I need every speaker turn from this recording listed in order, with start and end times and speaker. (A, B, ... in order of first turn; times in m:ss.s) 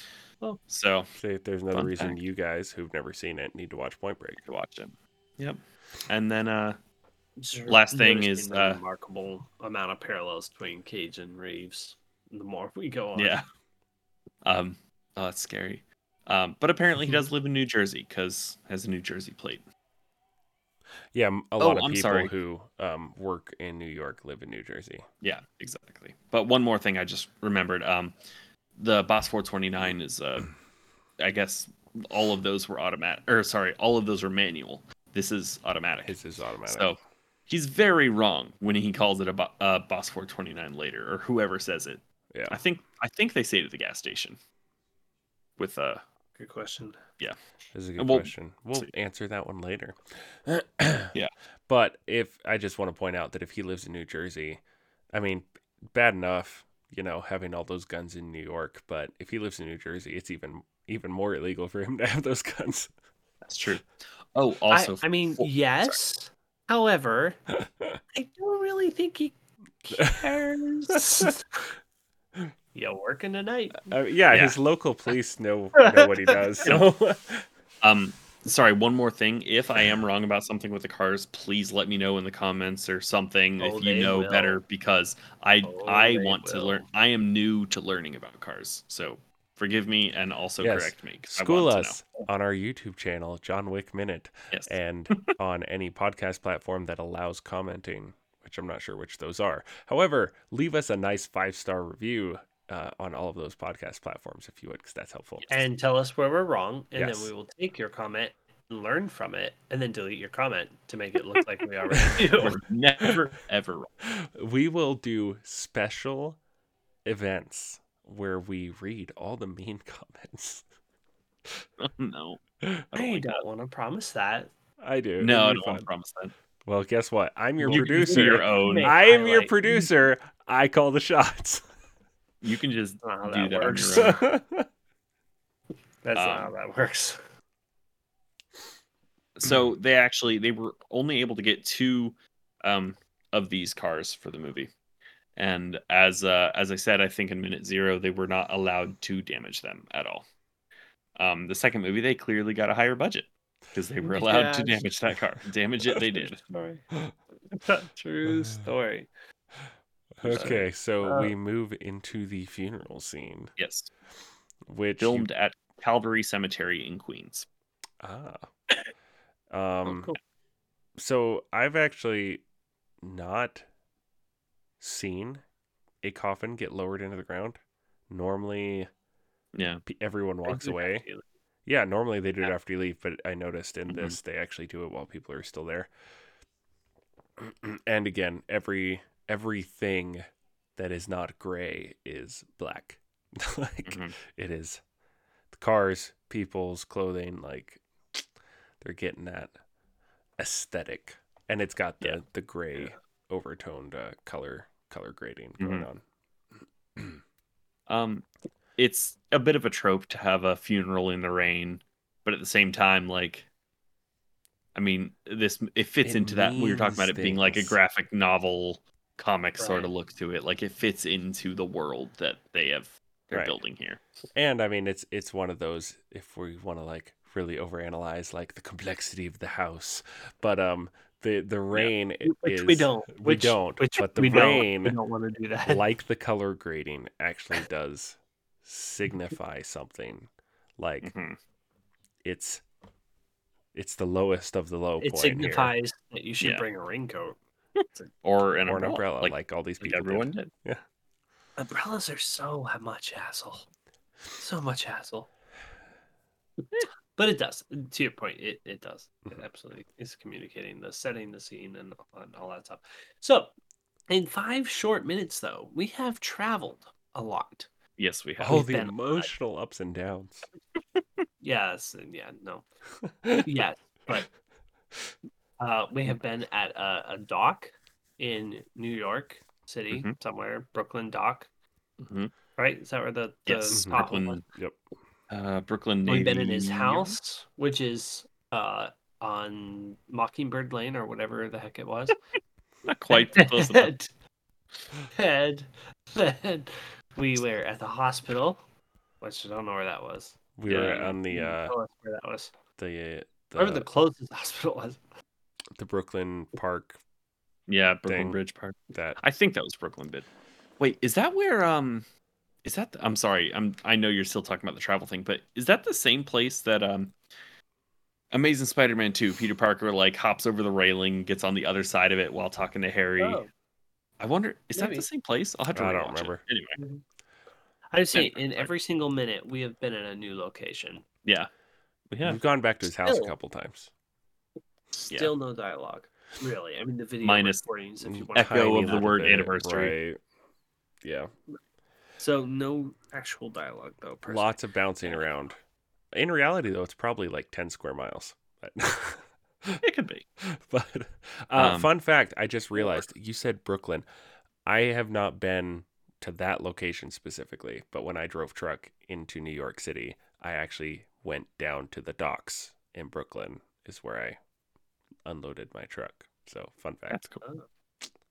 0:00.6-0:01.1 A
0:01.2-0:04.4 B
0:01.7-0:02.2 A
0:04.4-0:06.8 A
0:07.4-0:13.4 C
0:07.7-0:08.8 A
0:13.2-0:13.4 A
0:14.4-0:19.6 A
0:21.1-0:25.1 B
0:21.6-0:22.3 A
0:25.2-0:28.2 A
0:28.8-0:30.5 A
0:31.2-0:44.4 A
0:36.0-0:36.9 B
0:42.3-0:42.6 B
0:45.6-0:46.0 A
0:46.4-0:47.0 C
0:47.7-0:51.1 B
0:48.0-0:48.9 A
0:51.7-0:54.6 B
0:55.1-1:02.9 B
1:03.5-1:06.0 A
1:04.7-1:07.4 C
1:08.1-1:11.4 C
1:10.0-1:10.3 B
1:11.0-1:11.3 B
1:12.7-1:14.0 C
1:13.9-1:17.5 B
1:14.3-1:14.6 A
1:15.8-1:16.7 C
1:17.8-1:32.1 A
1:23.6-1:24.6 C
1:25.6-1:26.8 C
1:30.6-1:45.5 B
1:34.5-1:34.8 A
1:45.5-1:52.6 C
1:46.9-1:47.3 B
1:52.0-1:52.2 B
1:52.4-1:53.9 A
1:54.4-1:56.4 B
1:57.1-2:00.6 B
2:01.8-2:02.4 A
2:02.9-2:03.4 A
2:02.9-2:04.5 C
2:04.8-2:05.9 B
2:05.2-2:06.3 A
2:06.6-2:11.6 B
2:07.6-2:09.9 C
2:07.7-2:08.9 A
2:12.4-2:14.2 A
2:13.0-2:14.2 C
2:13.9-2:14.6 B
2:16.0-2:17.2 C
2:16.1-2:16.5 A
2:19.4-2:24.7 A
2:25.4-2:30.3 A
2:31.2-2:36.4 A
2:34.0-2:34.9 C
2:36.1-2:36.8 C
2:37.5-2:39.1 C
2:38.3-2:38.6 B
2:40.2-2:43.5 B
2:40.2-2:40.6 A
2:40.3-2:41.3 C
2:43.6-2:43.9 A
2:44.7-2:45.3 B
2:45.0-2:47.5 A
2:48.0-2:48.5 B
2:49.5-2:50.1 B
2:51.0-2:52.4 B
2:53.0-2:53.6 B
2:54.8-2:55.4 B
2:56.0-2:57.6 B
2:58.1-2:58.9 B
2:59.5-2:59.8 A
2:59.9-3:01.0 B
3:00.5-3:01.2 C
3:01.6-3:05.9 B
3:03.9-3:04.2 A
3:07.4-3:10.2 B
3:10.8-3:14.8 B
3:13.9-3:14.2 A
3:15.5-3:17.8 B
3:18.8-3:19.5 B
3:20.4-3:26.0 B
3:25.6-3:25.9 A
3:27.9-3:28.2 A
3:28.8-3:33.5 A
3:34.8-3:44.0 A
3:36.0-3:37.8 B
3:39.6-3:39.9 C
3:44.4-3:55.0 B
3:52.2-3:55.8 C
3:55.6-4:01.1 B
4:01.0-4:01.4 A
4:02.2-4:02.6 B
4:03.8-4:05.7 B
4:05.0-4:07.4 C
4:06.4-4:06.6 A
4:07.8-4:10.5 A
4:08.6-4:10.8 B
4:11.6-4:13.7 C
4:14.4-4:15.3 C
4:16.8-4:23.5 C
4:24.1-4:27.7 C
4:28.0-4:28.6 A
4:28.4-4:30.5 B
4:28.5-4:29.3 C
4:31.4-4:32.7 C
4:33.4-4:34.3 C
4:35.6-4:41.5 C
4:42.0-4:42.3 A
4:42.6-4:44.4 C
4:43.5-4:44.4 A
4:43.7-4:44.8 B
4:45.3-4:47.2 A
4:46.1-4:52.1 C
4:52.9-4:53.9 A
4:53.1-4:54.1 C
4:55.1-4:58.6 C
4:59.2-5:00.4 C
5:00.6-5:01.7 B
5:00.7-5:01.2 A
5:00.9-5:02.5 C
5:02.8-5:03.9 B
5:03.6-5:05.0 C
5:05.8-5:07.0 B
5:07.7-5:10.3 A
5:08.1-5:08.4 B
5:08.9-5:09.2 B
5:10.8-5:12.1 A
5:12.6-5:17.1 A
5:18.3-5:23.4 A
5:23.2-5:23.5 C
5:24.2-5:26.8 A
5:24.7-5:25.1 C
5:25.7-5:26.4 B
5:27.9-5:31.0 C
5:28.1-5:28.7 A
5:32.1-5:32.4 A
5:32.2-5:33.9 B
5:33.0-5:33.3 C
5:35.0-5:39.3 C
5:35.1-5:35.3 A
5:37.2-5:37.6 A
5:38.0-5:40.2 B
5:38.4-5:40.0 A
5:41.0-5:41.3 B
5:42.2-5:45.2 C
5:44.2-5:45.6 B
5:46.1-5:49.8 B
5:49.8-5:50.3 A
5:50.5-5:54.1 B
5:51.6-5:51.9 A
5:54.6-6:04.4 B
6:05.2-6:07.3 B
6:07.1-6:07.4 A